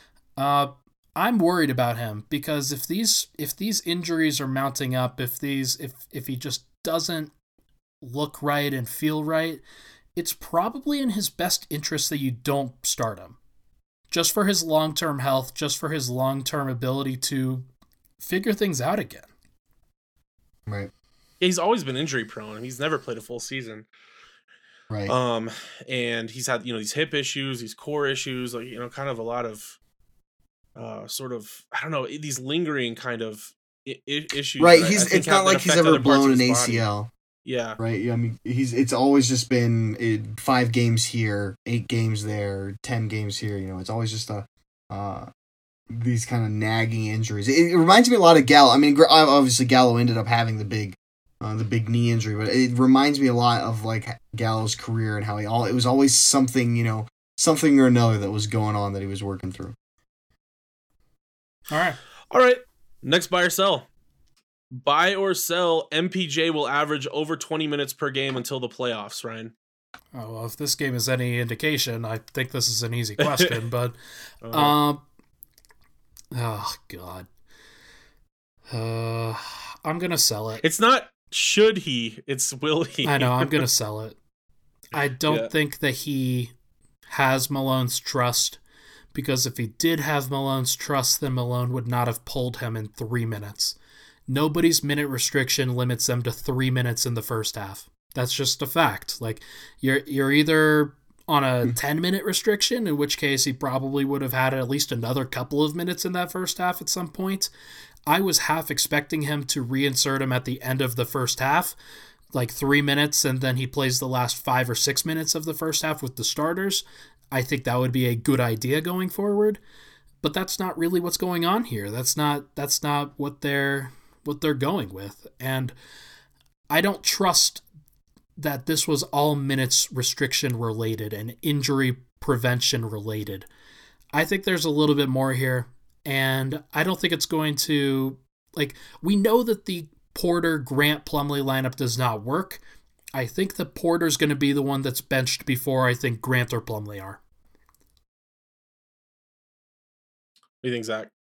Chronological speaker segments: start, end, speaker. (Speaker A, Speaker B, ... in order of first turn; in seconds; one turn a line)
Speaker A: 0.4-7.3
Speaker A: 8.0-9.6
Speaker A: 10.2-13.4
Speaker A: 14.1-17.6
Speaker A: 18.2-19.3
Speaker B: 21.4-23.9
Speaker B: 25.1-29.8
Speaker B: 30.8-36.8
Speaker C: 34.6-37.1
Speaker B: 37.4-37.8
Speaker C: 37.8-45.3
Speaker C: 45.9-59.7
Speaker A: 61.7-62.0
Speaker B: 62.3-63.9
Speaker B: 64.7-69.5
Speaker A: 70.1-73.9
Speaker B: 73.2-73.5
Speaker B: 74.4-74.8
Speaker A: 74.5-75.0
Speaker A: 76.3-77.3
Speaker A: 78.7-80.6
Speaker B: 80.6-83.6
Speaker A: 83.0-84.2
Speaker A: 84.9-86.5
Speaker B: 85.2-85.5
Speaker A: 87.1-88.6
Speaker A: 89.1-93.8
Speaker A: 94.3-107.5
Speaker A: 108.1-111.8
Speaker A: 112.3-119.6
Speaker A: 120.2-125.8
Speaker A: 126.7-127.6
Speaker A: 128.4-133.5
Speaker A: 134.1-142.6
Speaker A: 143.1-147.2
Speaker B: 150.6-151.1